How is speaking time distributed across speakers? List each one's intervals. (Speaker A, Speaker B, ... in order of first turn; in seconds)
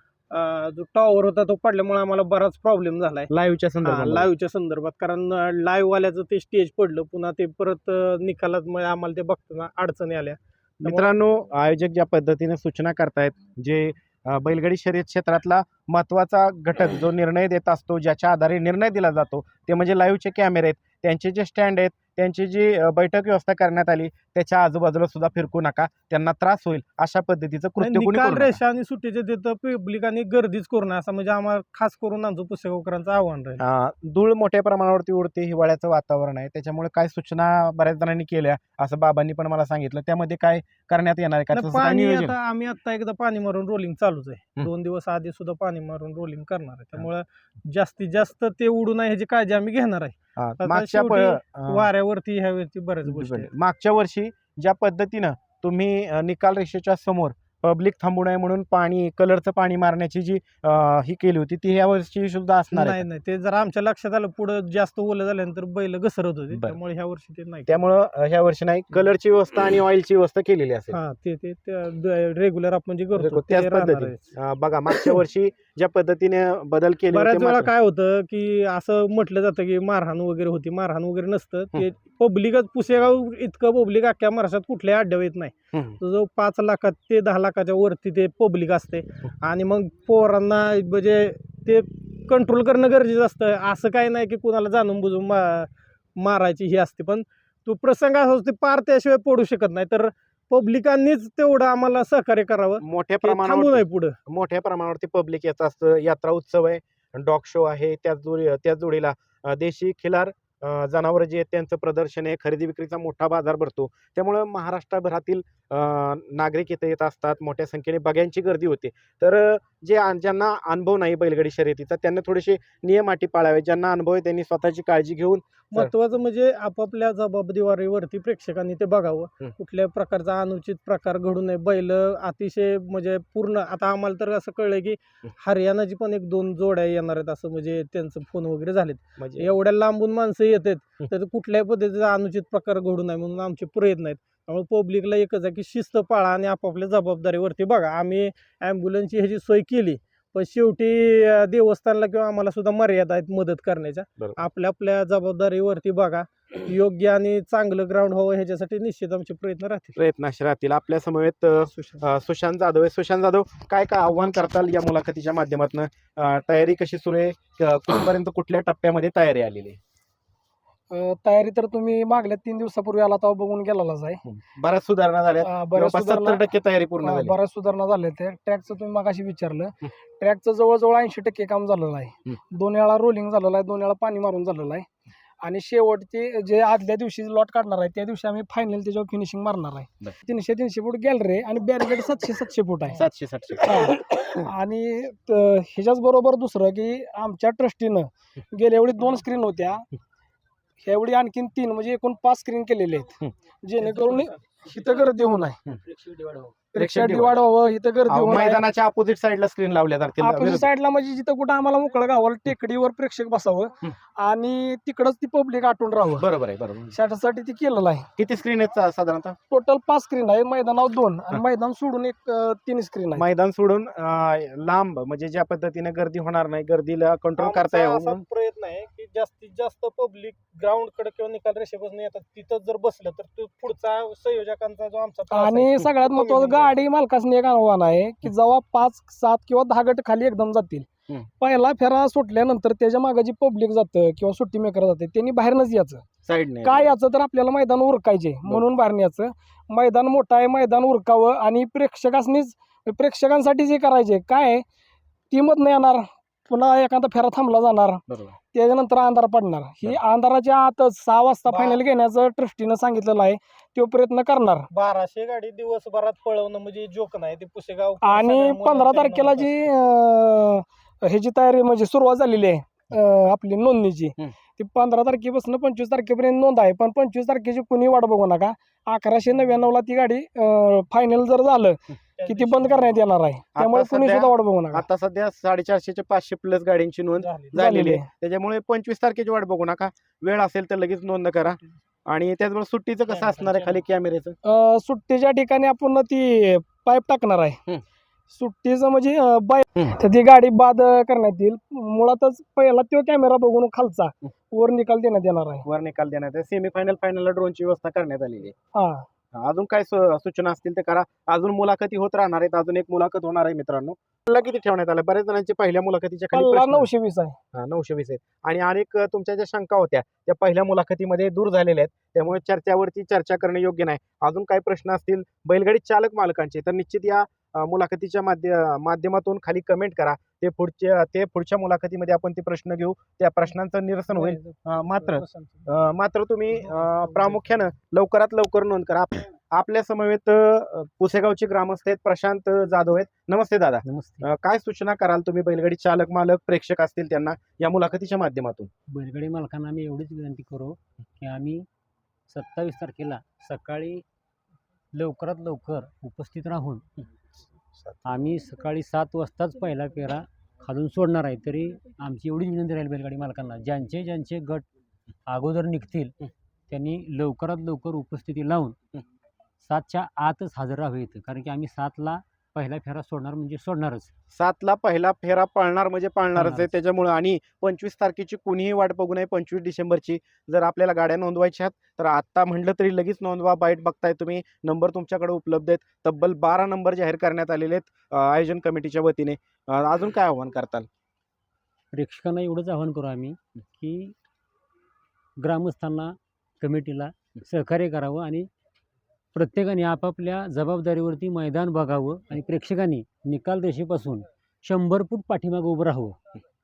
Speaker A: 0.3-3.3, 3.8-11.1, 27.8-33.6, 41.5-53.5, 62.7-67.7, 70.9-74.2, 77.1-104.2, 125.7-160.0, 227.4-236.8, 261.5-261.8, 264.7-269.5, 282.2-283.0, 287.2-287.6, 293.1-293.8, 334.1-335.7, 336.5-337.6
Speaker B: 3.3-4.3, 10.8-28.6, 33.6-42.3, 50.4-51.9, 53.1-63.0, 67.7-71.0, 73.2-77.7, 102.8-125.9, 139.2-139.5, 160.0-169.8, 174.3-177.4, 192.9-193.9, 206.7-207.4, 208.1-210.7, 216.2-216.9, 218.2-219.4, 223.2-228.2, 246.2-246.9, 258.1-258.4, 283.6-294.4, 305.6-308.5, 309.4-316.9, 317.6-348.7, 374.3-390.9
Speaker C: 170.9-174.2, 175.4-176.4, 177.0-184.9, 185.4-193.0, 193.6-199.9, 200.8-205.6, 206.7-208.6, 210.2-216.2, 216.9-218.1, 219.5-223.3, 235.3-240.9, 241.4-246.1, 246.6-254.7, 255.3-264.7, 268.0-284.8, 287.5-288.1, 294.4-297.6, 298.3-305.6, 308.7-309.1, 316.3-317.4
Speaker D: 205.9-206.7, 343.8-344.3, 348.9-351.7, 352.3-354.0, 354.9-356.8, 358.1-364.6, 365.3-366.1, 366.7-368.8, 369.6-374.1, 376.4-376.7, 391.9-394.1, 395.4-398.5, 399.3-406.2